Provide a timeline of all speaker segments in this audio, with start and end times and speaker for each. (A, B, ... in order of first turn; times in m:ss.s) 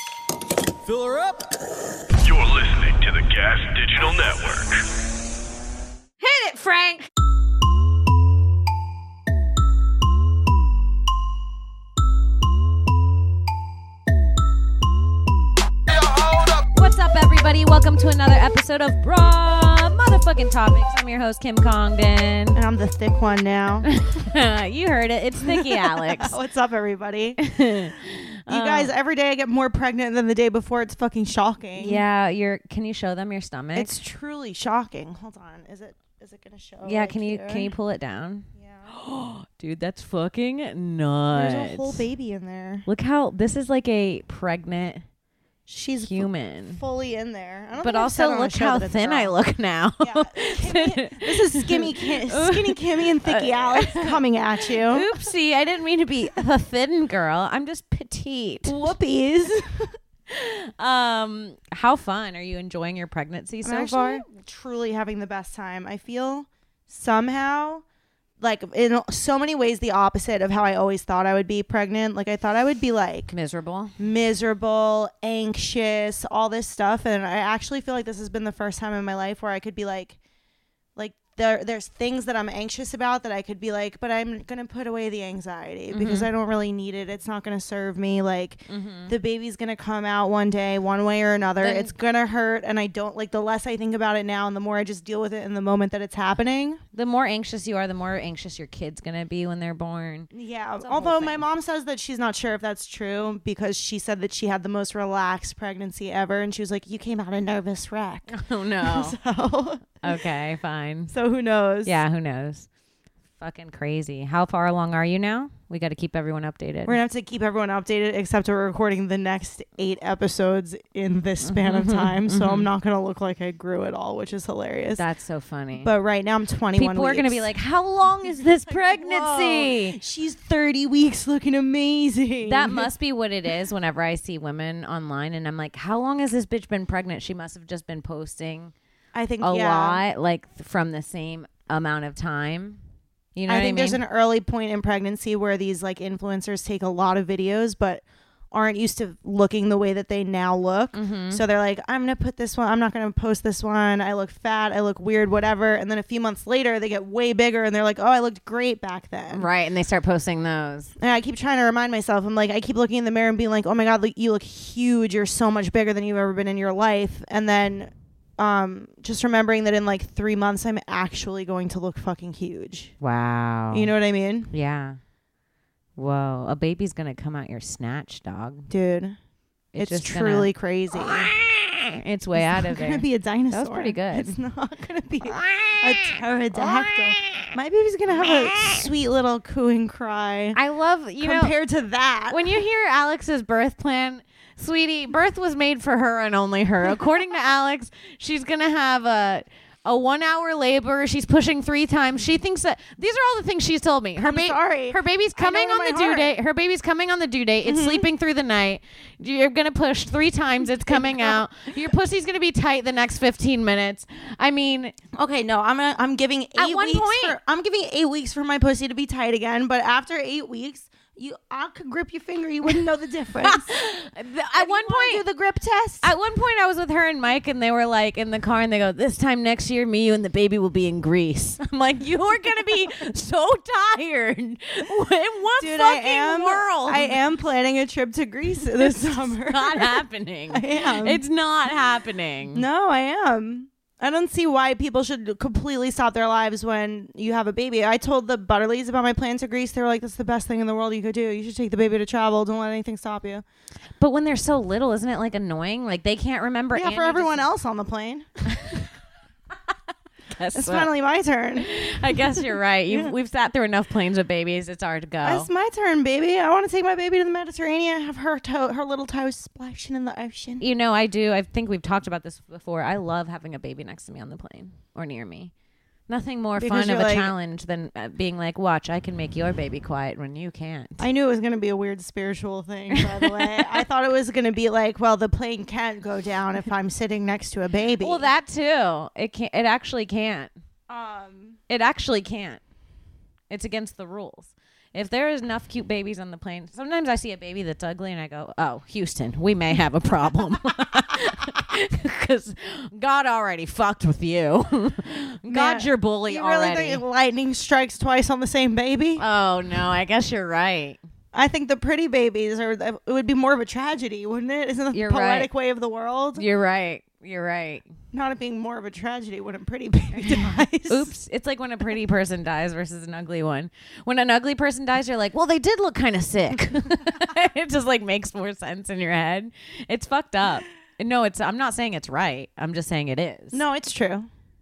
0:02.2-0:04.8 A
0:06.2-0:07.1 B
0:16.7-0:22.6 B
0:22.5-0:23.9 C
0:23.9-0:26.4 B
0:25.4-0:27.4 C
0:27.4-0:28.9 B
0:28.5-0:32.0 C
0:31.8-0:33.9 B
0:33.7-0:37.7 C
0:36.8-0:42.0 B
0:38.6-0:38.9 C
0:41.3-0:42.9 C
0:42.9-0:45.0 B
0:45.7-0:49.3 C
0:46.0-0:46.8 B
0:47.8-0:58.8 B
0:50.0-0:55.1 C
0:58.6-0:59.9 C
1:00.3-1:04.2 B
1:03.6-1:07.8 C
1:08.4-1:13.3 C
1:13.3-1:13.9 B
1:14.0-1:20.2 C
1:21.0-1:36.8 C
1:25.9-1:26.3 B
1:28.7-1:29.1 B
1:31.6-1:31.9 B
1:36.9-1:40.3 B
1:40.3-1:50.2 C
1:40.8-1:41.4 B
1:48.3-1:49.2 B
1:50.0-1:51.1 B
1:51.1-1:52.0 C
1:51.8-1:52.7 B
1:53.4-1:57.0 B
1:56.8-2:05.0 C
2:01.4-2:02.7 B
2:05.0-2:05.9 B
2:05.8-2:07.5 C
2:06.8-2:10.0 B
2:08.2-2:12.9 C
2:12.4-2:18.7 B
2:19.1-2:20.0 C
2:19.4-2:22.8 B
2:23.3-2:24.0 B
2:23.5-2:39.5 C
2:30.9-2:31.4 B
2:39.3-2:40.9 B
2:41.0-2:52.9 C
2:53.0-2:53.9 B
2:53.7-2:54.5 C
2:54.5-2:55.0 B
2:56.0-2:58.7 B
2:58.7-2:59.2 C
2:59.7-3:04.3 B
2:59.8-3:01.3 C
3:02.4-3:10.6 C
3:05.3-3:07.5 B
3:08.2-3:08.9 B
3:10.5-3:11.5 B
3:11.2-3:12.6 C
3:12.3-3:35.0 B
3:24.2-3:26.3 C
3:27.6-3:28.1 C
3:30.6-3:31.4 C
3:35.1-3:46.1 C
3:36.6-3:37.4 B
3:43.4-3:45.2 B
3:46.0-3:57.2 B
3:55.6-4:01.2 C
3:58.6-4:02.6 B
4:02.5-4:13.4 C
4:14.0-4:17.5 B
4:16.7-4:18.4 C
4:18.5-4:18.8 B
4:20.3-4:20.9 B
4:20.5-4:23.1 C
4:21.6-4:25.5 B
4:25.2-4:30.6 C
4:30.6-4:35.5 B
4:36.1-4:41.0 B
4:36.6-4:37.3 C
4:41.0-4:48.2 C
4:42.9-4:43.8 B
4:48.0-4:50.5 B
4:50.9-4:51.6 C
4:51.7-4:52.6 B
4:53.5-5:07.0 B
5:05.5-5:09.2 C
5:09.2-5:11.0 B
5:11.3-5:16.4 C
5:14.9-5:15.5 B
5:16.4-5:17.8 B
5:18.1-5:21.1 C
5:20.1-5:33.6 B
5:33.5-5:34.3 C